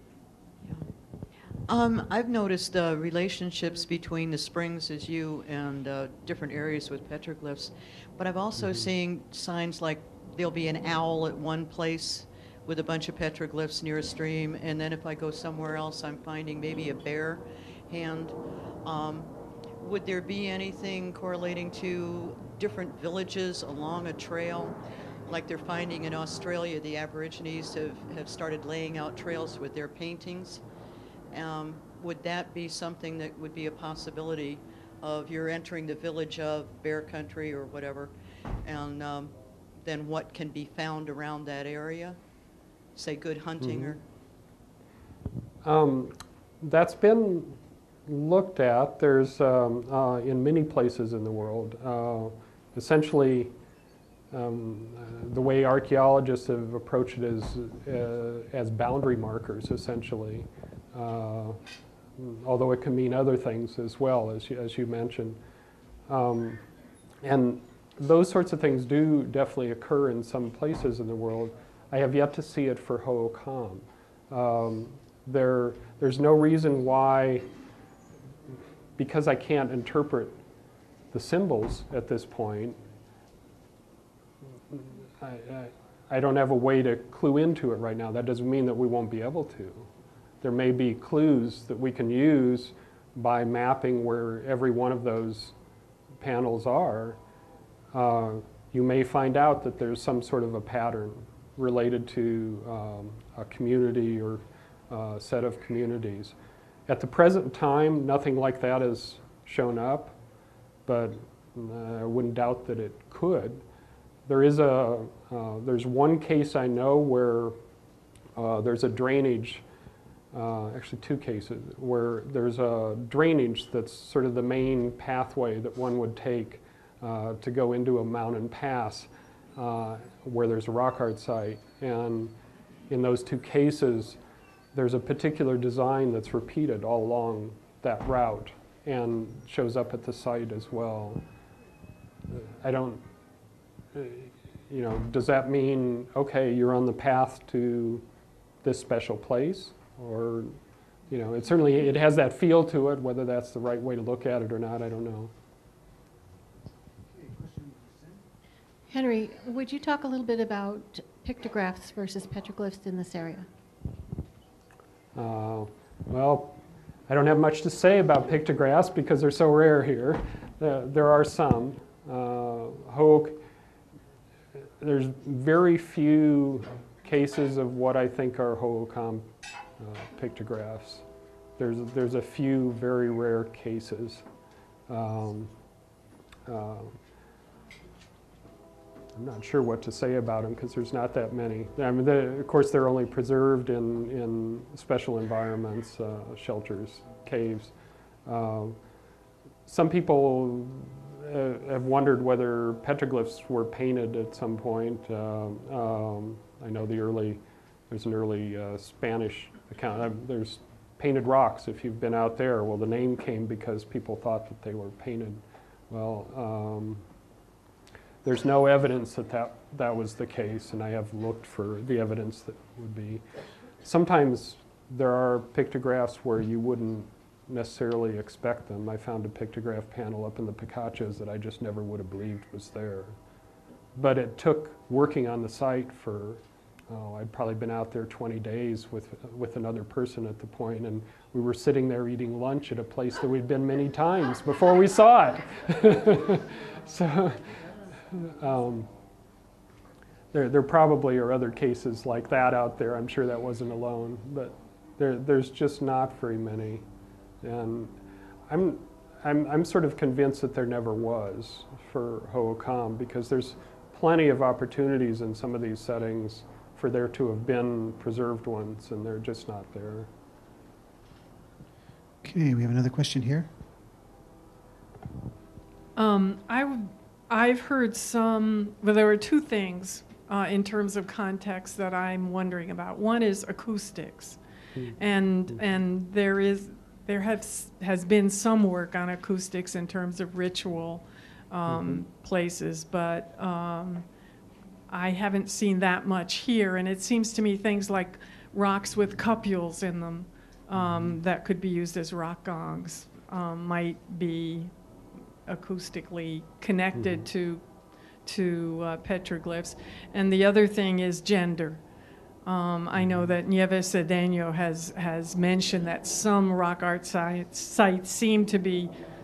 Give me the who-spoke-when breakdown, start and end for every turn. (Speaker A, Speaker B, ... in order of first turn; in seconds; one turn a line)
Speaker A: 1.6-30.6
Speaker A: 31.3-38.1
Speaker A: 38.6-42.2
Speaker A: 43.0-44.0
Speaker B: 43.6-44.0
Speaker B: 45.6-53.5
Speaker B: 54.3-61.6
Speaker B: 62.2-65.4
Speaker B: 66.1-66.6
Speaker B: 67.2-77.4
Speaker B: 79.0-80.4
Speaker B: 81.1-82.8
Speaker B: 84.7-89.9
Speaker B: 90.4-95.5
Speaker B: 96.2-97.2
Speaker B: 97.9-106.3
Speaker B: 106.9-110.2
Speaker B: 110.8-113.6
Speaker B: 114.3-117.6
Speaker B: 118.3-119.6
Speaker B: 120.3-132.3
Speaker B: 132.9-134.2
Speaker B: 134.7-141.2
Speaker B: 142.3-143.0
Speaker B: 143.9-148.0
Speaker B: 148.6-150.6
Speaker B: 151.1-155.3
Speaker C: 157.1-158.2
Speaker D: 158.9-163.5
Speaker B: 165.1-173.4
Speaker B: 174.8-181.0
Speaker B: 181.6-184.2
Speaker B: 184.9-185.5
Speaker B: 186.4-187.0
Speaker B: 189.1-197.7
Speaker B: 198.2-198.8
Speaker B: 199.7-217.0
Speaker B: 218.2-223.2
Speaker B: 223.8-233.2
Speaker B: 233.9-247.5
Speaker B: 248.1-248.9
Speaker B: 250.3-256.8
Speaker B: 257.4-258.0
Speaker B: 258.5-270.1
Speaker C: 272.2-273.5
Speaker E: 275.9-284.4
Speaker E: 284.9-294.1
Speaker B: 291.7-292.0
Speaker E: 294.9-304.7
Speaker B: 300.7-301.2
Speaker E: 305.5-307.6
Speaker B: 306.9-307.3
Speaker E: 308.2-311.8
Speaker E: 312.4-318.9
Speaker B: 312.9-313.3